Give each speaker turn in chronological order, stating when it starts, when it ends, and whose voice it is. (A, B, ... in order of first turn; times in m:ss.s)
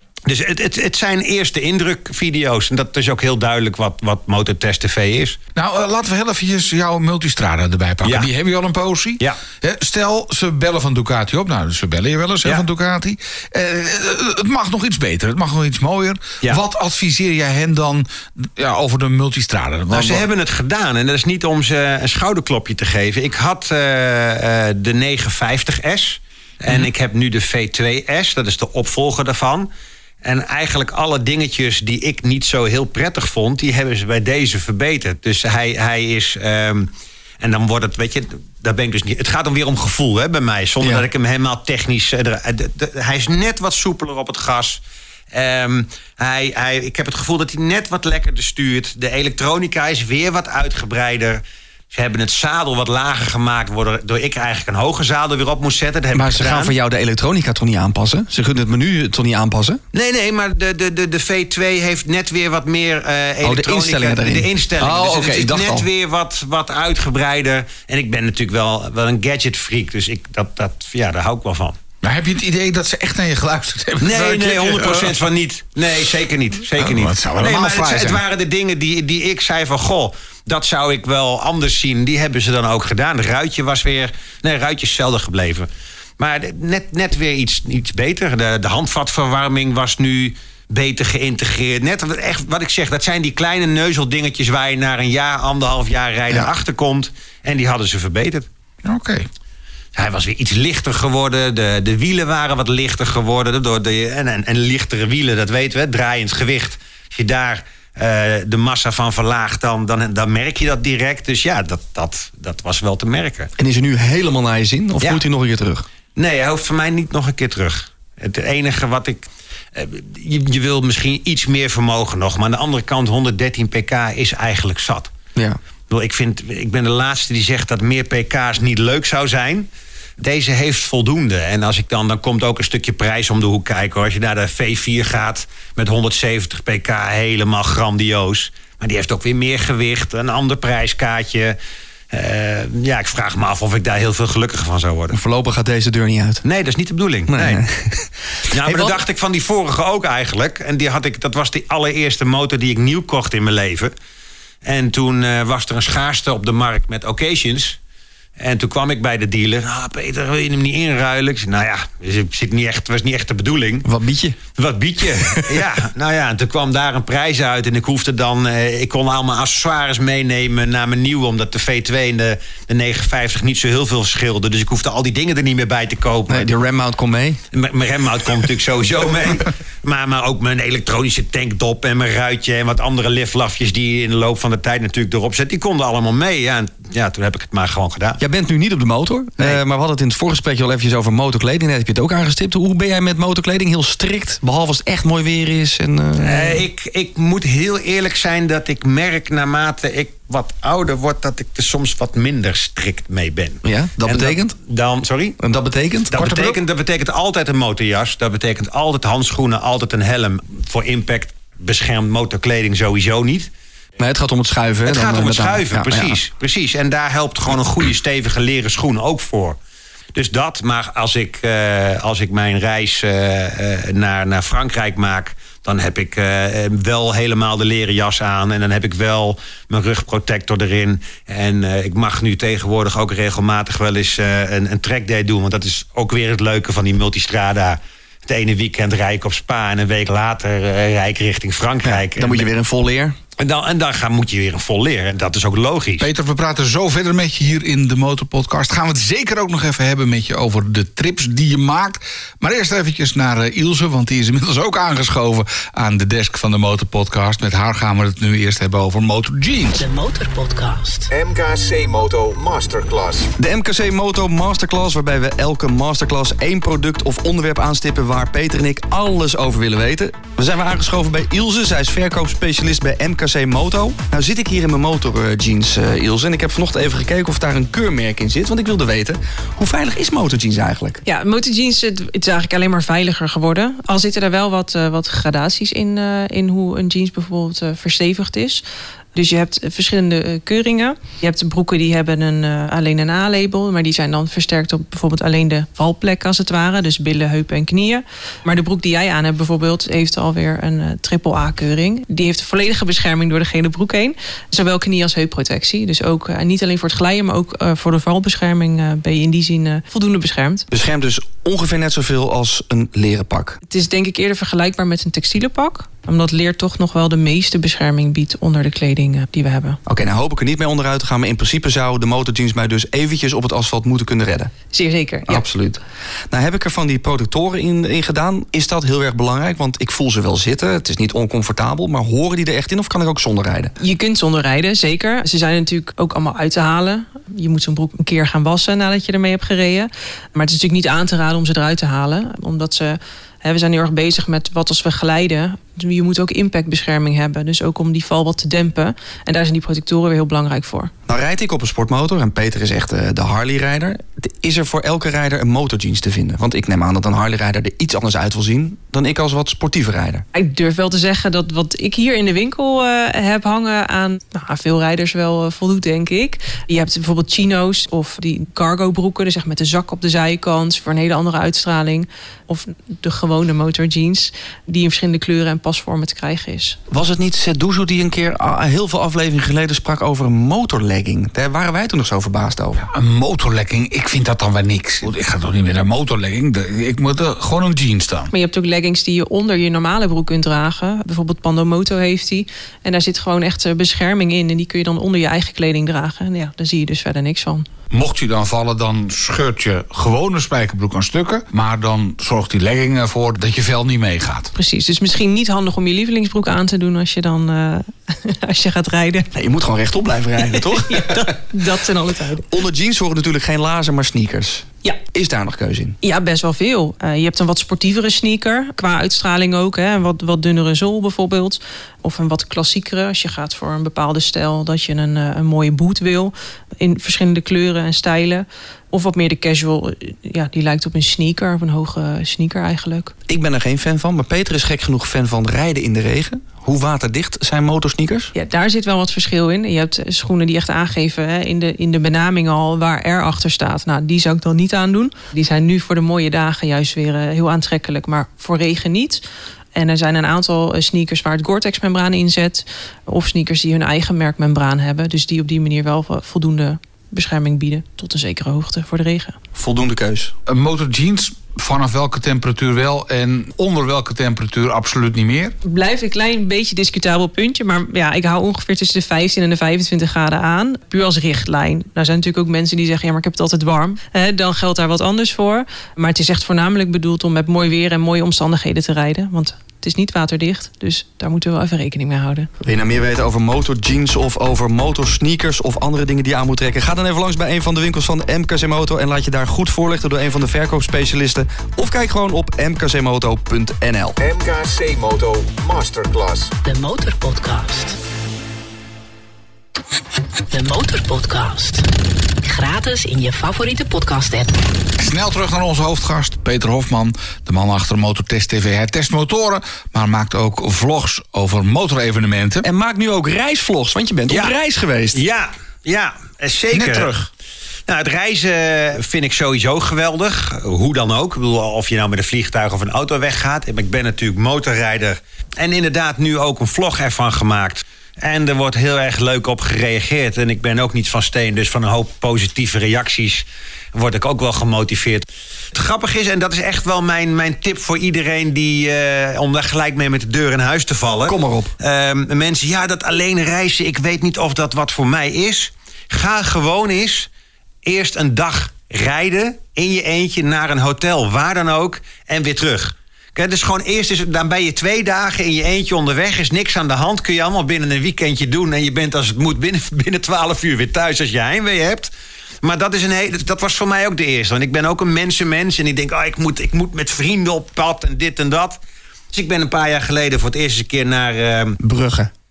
0:00.3-0:05.4 A
0:05.6-0:20.3 B
0:08.0-0:08.3 A
0:19.9-0:29.7 A
0:30.2-0:36.9 A
0:37.4-0:44.8 A
0:45.3-0:56.7 A
0:56.2-0:59.8 C
0:59.9-1:11.8 A
1:03.4-1:05.9 C
1:12.0-1:15.2 B
1:14.0-1:38.5 A
1:16.7-1:18.2 B
1:38.8-1:39.3 B
1:40.0-1:53.5 A
1:53.6-1:55.9 C
1:56.2-2:05.1 A
2:05.9-2:21.6 A
2:22.1-2:25.2 A
2:25.1-2:26.4 C
2:26.4-2:27.6 A
2:27.3-2:29.0 C
2:28.5-2:33.9 A
2:34.6-2:37.8 A
2:38.4-2:43.9 A
2:43.8-2:44.4 C
2:44.6-2:56.5 A
2:45.3-2:45.6 C
2:56.3-2:57.4 C
2:57.5-3:08.2 A
3:08.2-3:16.6 C
3:16.2-3:25.4 A
3:23.6-3:24.6 C
3:25.4-3:26.1 C
3:26.1-3:33.5 A
3:26.1-3:26.6 B
3:34.0-3:36.1 C
3:34.8-3:39.6 A
3:40.2-4:02.5 A
4:01.8-4:03.2 C
4:03.4-4:06.1 A
4:06.0-4:19.9 B
4:19.8-4:21.1 D
4:21.1-4:23.3 E
4:23.4-4:41.0 C
4:41.1-4:48.6 F
4:49.2-5:10.7 F
5:10.7-5:13.6 C
5:13.7-5:19.8 F
5:19.9-5:24.5 C
5:24.7-5:25.5 F
5:25.3-5:25.8 C
5:26.3-5:33.7 C
5:33.8-5:50.9 F
5:51.1-6:00.2 C
6:00.4-6:16.8 F
6:16.9-6:22.8 C
6:22.9-6:28.3 B
6:28.3-6:37.7 F
6:37.9-6:44.5 B
6:44.6-6:49.3 F
6:49.4-6:51.4 C
6:50.5-6:52.5 F
6:52.5-6:56.0 C
6:56.0-7:13.1 F
7:13.3-7:18.3 C
7:18.4-7:29.2 F
7:29.8-7:39.4 F
7:39.6-7:40.3 C
7:40.5-7:45.6 B
7:45.6-8:02.5 F
8:02.6-8:14.2 C
8:14.2-8:16.5 E
8:16.6-8:18.0 D
8:20.5-8:21.9 D
8:22.4-8:24.6 D
8:25.0-8:32.7 B
8:32.6-8:35.2 C
8:35.1-8:37.1 A
8:36.7-8:37.3 B
8:37.9-9:07.3 A
9:01.3-9:01.7 C
9:07.8-9:28.8 A
9:29.3-9:31.8 A
9:31.8-9:32.3 C